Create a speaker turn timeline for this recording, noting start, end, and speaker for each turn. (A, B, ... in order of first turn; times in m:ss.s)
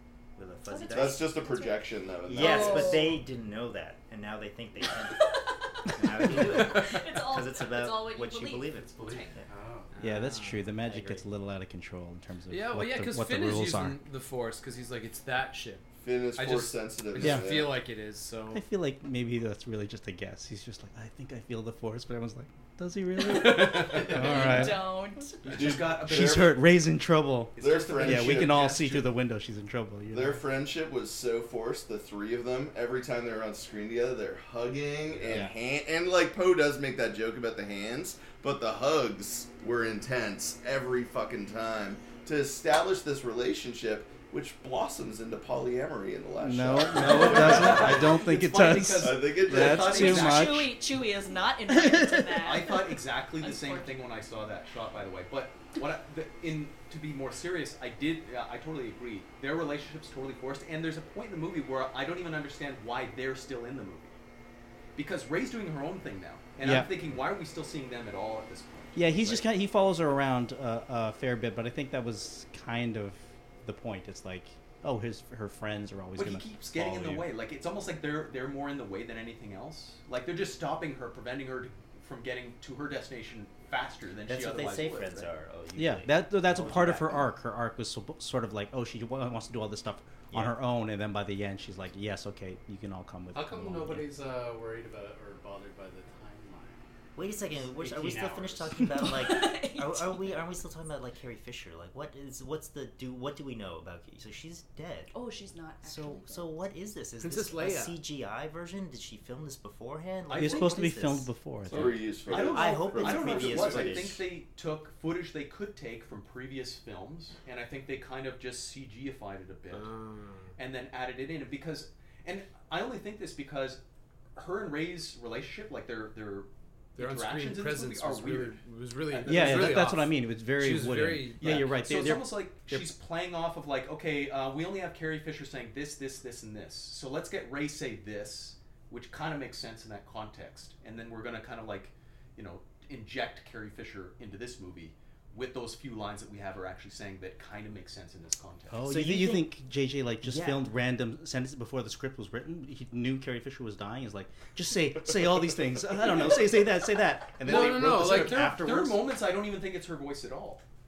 0:00.4-0:01.3 A
0:00.6-0:03.2 B
0:00.9-0:03.1 C
0:02.2-0:09.4 A
0:05.2-0:09.3 B
0:08.8-0:10.0 D
0:09.9-0:10.7 E
0:10.0-0:14.0 F
0:10.8-0:11.2 A
0:12.5-0:15.8 E
0:16.0-0:17.8 C
0:16.3-0:18.6 E
0:17.2-0:17.5 F
0:18.5-0:25.0 F
0:23.2-0:24.4 E
0:24.0-0:25.4 B
0:25.4-0:26.6 G
0:25.5-0:26.6 C
0:25.8-0:30.4 F
0:27.6-0:29.0 G
0:27.6-0:29.0 C
0:30.1-0:48.2 C
0:46.4-0:50.7 F
0:46.9-0:50.5 G
0:49.0-0:50.2 C
0:49.9-0:52.8 B
0:51.7-0:52.4 F
0:52.4-1:04.2 G
0:53.4-0:54.0 B
1:05.0-1:09.4 G
1:06.6-1:06.9 F
1:09.0-1:17.3 F
1:16.2-1:25.3 G
1:24.2-1:27.3 A
1:25.8-1:34.0 F
1:30.3-1:30.6 A
1:33.3-1:39.1 D
1:37.2-1:45.1 A
1:38.9-1:40.6 B
1:45.1-1:46.5 B
1:45.8-1:51.3 A
1:47.2-1:48.0 E
1:50.3-1:50.9 G
1:50.4-1:52.0 F
1:51.7-1:54.2 C
1:51.8-1:59.9 G
1:52.3-1:54.2 A
1:59.7-2:00.5 E
2:00.6-2:03.8 G
2:04.4-2:09.9 G
2:07.0-2:11.7 E
2:09.3-2:12.9 F
2:11.4-2:28.8 G
2:28.7-2:39.0 F
2:28.8-2:29.5 A
2:30.2-2:30.6 A
2:37.4-2:38.5 E
2:37.4-2:40.6 G